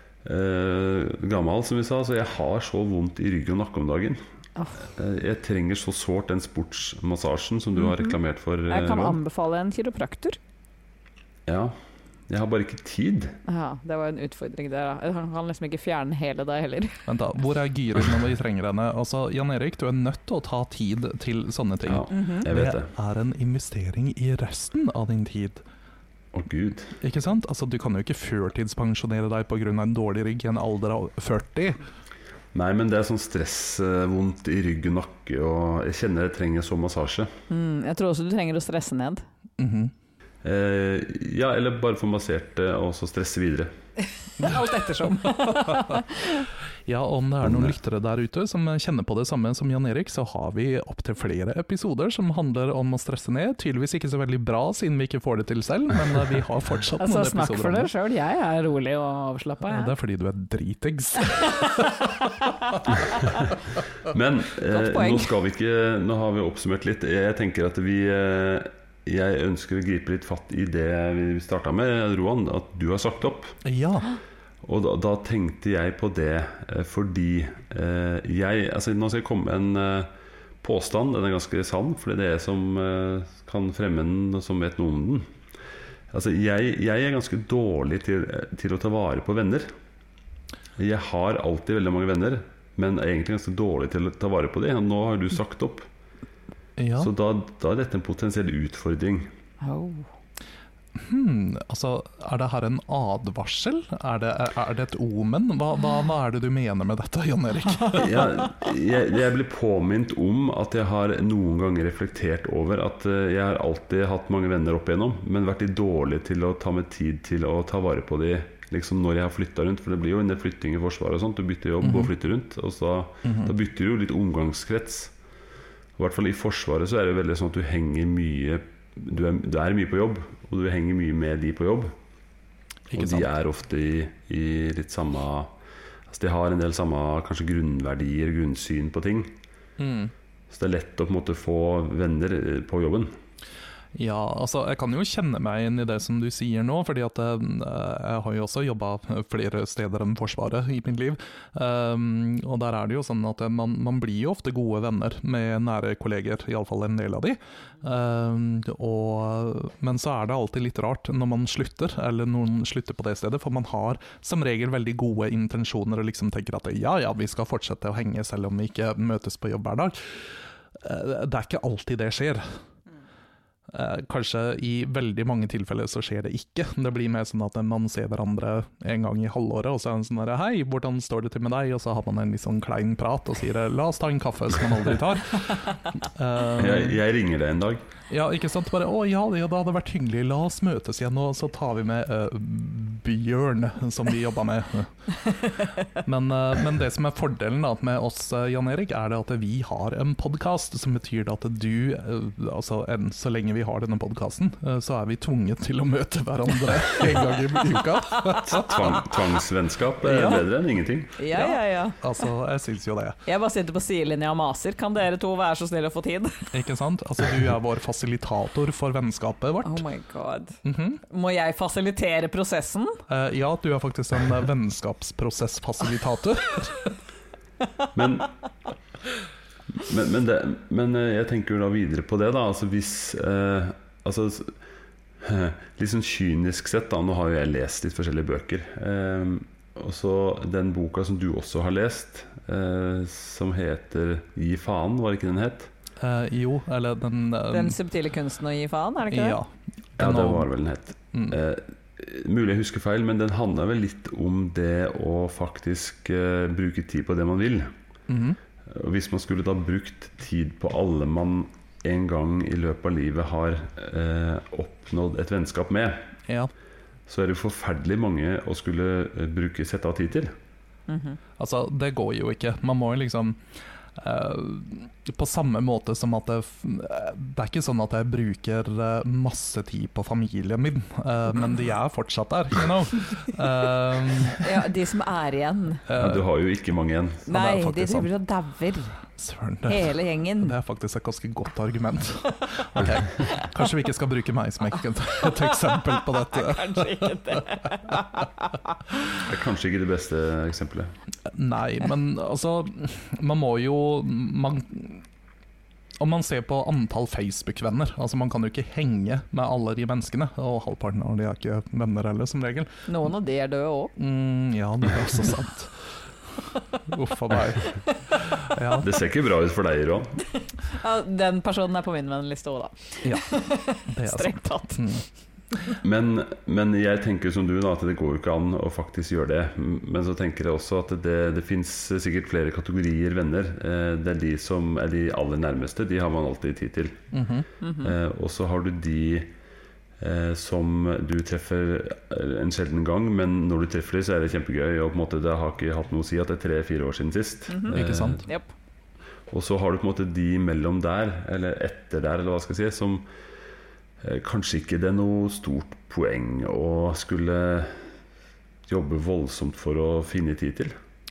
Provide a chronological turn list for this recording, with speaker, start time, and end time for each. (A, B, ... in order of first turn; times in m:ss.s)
0:00.2-0:04.2 A
0:04.9-0:09.2 A
0:07.8-0:08.2 B
0:08.7-0:10.4 B
0:11.5-0:11.8 A
0:12.3-0:13.4 A
0:13.5-0:17.0 B
0:17.1-0:25.6 C
0:21.9-0:22.9 A
0:22.1-0:22.5 B
0:26.3-0:27.0 A
0:27.0-0:31.8 C
0:32.5-0:37.3 A
0:37.5-0:39.2 B
0:39.6-0:39.9 C
0:40.4-0:43.7 A
0:44.4-0:46.4 B
0:45.4-0:46.0 C
0:46.9-0:57.9 C
0:47.4-0:47.7 A
0:57.0-0:59.9 B
0:59.7-1:01.9 C
1:01.3-1:03.4 B
1:03.0-1:13.6 A
1:04.7-1:05.3 B
1:13.6-1:14.1 C
1:14.6-1:20.1 A
1:20.6-1:25.3 A
1:26.1-1:29.7 A
1:30.8-1:35.9 A
1:36.8-1:37.1 C
1:37.0-1:39.3 A
1:39.6-1:40.1 B
1:41.0-1:48.2 C
1:47.9-2:05.1 A
2:01.8-2:02.1 C
2:03.2-2:03.5 C
2:06.0-2:11.9 A
2:12.9-2:13.3 C
2:12.9-2:15.5 A
2:16.1-2:19.4 A
2:19.8-2:20.1 C
2:20.5-2:23.2 A
2:24.0-2:52.5 C
2:53.7-3:07.0 C
3:06.6-3:07.8 A
3:08.1-3:14.9 C
3:15.9-3:29.2 C
3:28.4-3:31.1 A
3:30.0-3:30.4 C
3:30.1-3:30.4 B
3:31.2-3:32.0 B
3:31.3-3:33.2 C
3:33.3-3:36.5 B
3:36.5-3:39.8 C
3:39.6-3:43.0 B
3:40.6-3:41.0 C
3:43.1-3:46.9 C
3:47.9-3:48.3 A
3:49.7-3:54.6 A
3:55.2-4:05.7 A
4:06.0-4:07.8 C
4:07.5-4:09.4 B
4:09.1-4:10.5 C
4:10.0-4:17.7 A
4:18.1-4:18.4 C
4:18.7-4:26.0 A
4:27.1-4:30.3 A
4:30.9-4:31.2 B
4:31.4-4:44.6 C
4:44.2-4:45.8 B
4:45.9-4:46.2 C
4:45.9-4:47.3 A
4:47.3-4:49.0 B
4:47.3-4:48.1 C
4:49.2-4:58.0 C
4:49.7-4:50.6 B
4:56.0-4:58.8 B
4:59.1-5:00.9 A
5:01.3-5:05.0 C
5:06.0-5:12.7 C
5:12.9-5:13.9 B
5:14.0-5:15.9 C
5:16.8-5:18.9 C
5:18.8-5:20.2 A
5:20.6-5:25.0 B
5:23.0-5:23.3 C
5:23.9-5:25.0 C
5:25.8-5:37.0 A
5:37.1-5:37.5 C
5:37.6-5:37.9 B
5:37.8-5:39.3 A
5:40.0-5:48.2 A
5:47.5-5:48.5 B
5:47.7-5:48.2 C
5:49.3-5:53.1 A
5:54.0-5:57.9 A
5:58.7-6:00.7 A